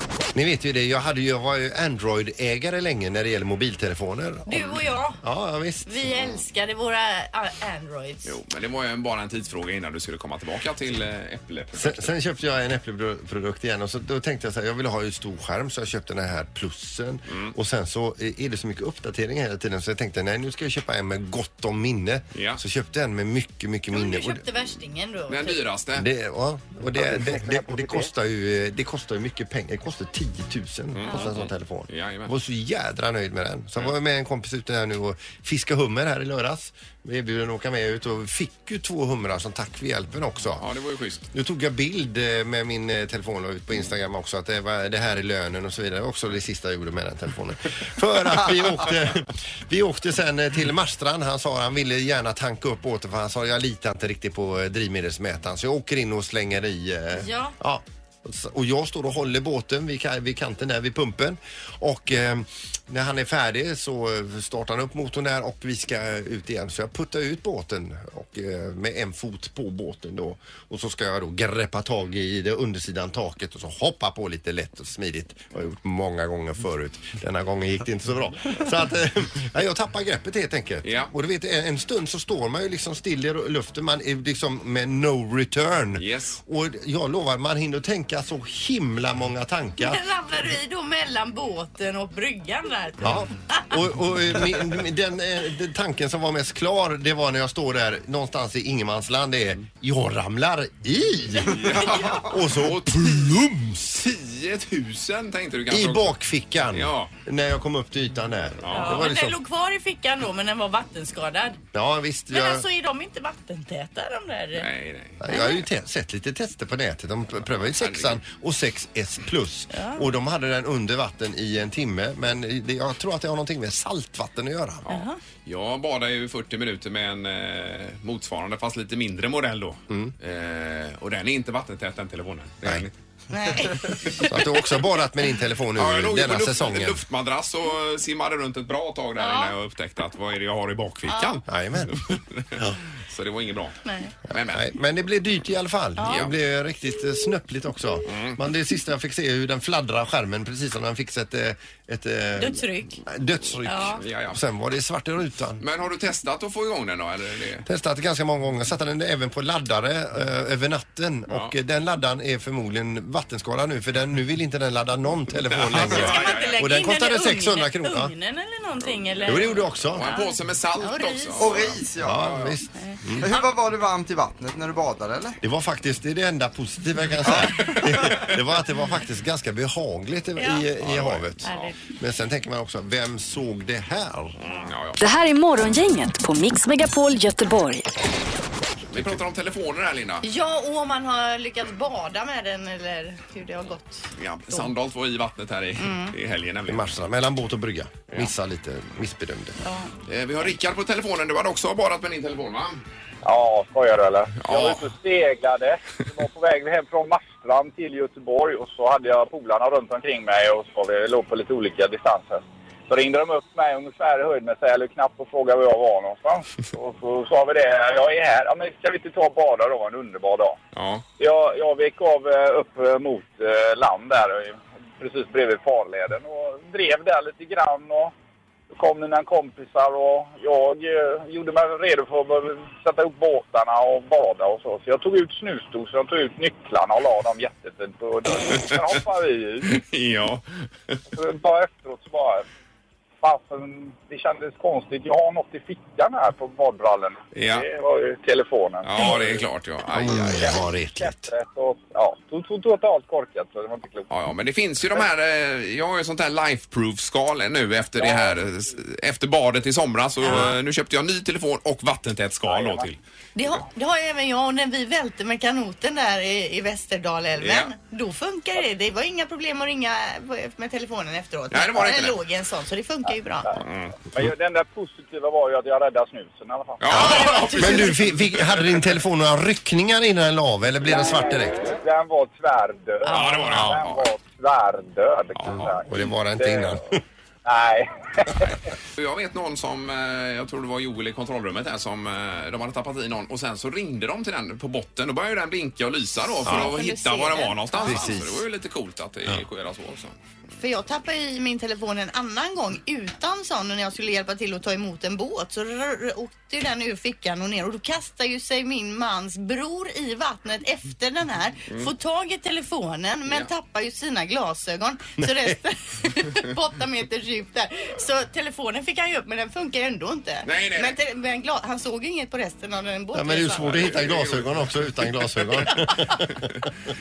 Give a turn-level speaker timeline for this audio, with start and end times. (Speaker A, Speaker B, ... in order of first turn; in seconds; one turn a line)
Speaker A: 0.3-6.2
Speaker B: 4.5-5.2
Speaker B: 5.8-8.3
Speaker C: 8.2-12.1
Speaker A: 11.8-24.4
Speaker C: 17.3-17.5
Speaker C: 22.3-22.6
Speaker B: 23.9-25.6
Speaker C: 25.3-26.1
Speaker A: 25.9-40.7
Speaker C: 30.9-32.3
Speaker C: 40.5-41.3
Speaker A: 41.3-90.0
Speaker B: 57.1-57.5
Speaker C: 80.8-81.1
Speaker C: 86.0-86.4
Speaker B: 89.8-93.7
Speaker A: 93.0-104.0
Speaker C: 101.5-103.2
Speaker C: 103.9-106.2
Speaker A: 105.7-109.4
Speaker C: 106.7-107.1
Speaker C: 108.6-109.1
Speaker B: 108.7-111.6
Speaker A: 111.7-112.7
Speaker B: 112.3-114.7
Speaker C: 114.5-115.2
Speaker A: 115.2-124.8
Speaker B: 115.3-115.6
Speaker C: 117.5-118.2
Speaker B: 119.7-120.1
Speaker C: 124.8-132.9
Speaker B: 124.9-125.2
Speaker B: 133.3-134.3
Speaker A: 134.2-137.0
Speaker C: 135.8-143.8
Speaker B: 139.2-139.5
Speaker B: 141.1-141.4
Speaker A: 141.4-142.0
Speaker A: 142.5-142.8
Speaker B: 143.8-144.1
Speaker C: 144.3-144.7
Speaker A: 144.3-155.6
Speaker B: 146.0-146.2
Speaker C: 146.1-146.3
Speaker C: 148.1-148.4
Speaker B: 152.4-153.0
Speaker B: 153.6-154.0
Speaker C: 154.0-154.4
Speaker C: 155.6-157.7
Speaker A: 157.6-168.1
Speaker C: 165.5-166.6
Speaker B: 165.8-171.6
Speaker C: 169.1-172.5
Speaker A: 169.2-170.1
Speaker D: 171.4-172.3
Speaker A: 172.0-173.2
Speaker B: 172.8-173.5
Speaker D: 173.2-175.4
Speaker A: 175.4-184.4
Speaker D: 177.2-177.7
Speaker B: 180.4-180.6
Speaker C: 180.8-181.7
Speaker B: 181.4-181.8
Speaker C: 184.4-185.0
Speaker E: 185.0-187.9
Speaker C: 188.9-190.2
Speaker A: 188.9-189.2
Speaker B: 190.2-194.7
Speaker C: 194.2-197.0
Speaker B: 195.8-196.1
Speaker A: 196.7-199.6
Speaker B: 199.6-199.9
Speaker C: 200.1-202.8
Speaker F: 203.2-220.6
Speaker C: 204.4-204.9
Speaker C: 220.7-221.0
Speaker F: 221.2-228.1
Speaker F: 228.7-239.8
Speaker C: 238.4-238.8
Speaker C: 239.7-241.0
Speaker F: 241.1-242.4
Speaker F: 243.2-249.4
Speaker C: 247.3-247.7
Speaker C: 248.8-250.6
Speaker A: 249.9-251.3
Speaker F: 250.1-254.1
Speaker C: 254.1-263.0
Speaker F: 258.0-258.4
Speaker A: 260.3-260.5
Speaker F: 262.5-262.9
Speaker B: 263.4-273.6
Speaker C: 267.4-267.7
Speaker C: 271.5-272.2
Speaker F: 273.5-277.1
Speaker C: 273.6-273.9
Speaker C: 276.8-278.9
Speaker B: 276.9-278.0
Speaker A: 276.9-281.7
Speaker F: 281.7-286.8
Speaker B: 283.0-283.4
Speaker C: 283.1-284.1
Speaker A: 283.5-283.8
Speaker C: 285.4-285.7
Speaker A: 285.6-287.0
Speaker F: 287.4-288.6
Speaker C: 288.9-300.2
Speaker B: 296.4-298.1
Speaker A: 296.4-296.7
Speaker A: 297.8-298.4
Speaker B: 300.6-323.7
Speaker A: 315.2-315.5
Speaker C: 320.4-321.0
Speaker A: 323.1-326.5
Speaker C: 323.6-325.7
Speaker C: 326.3-326.6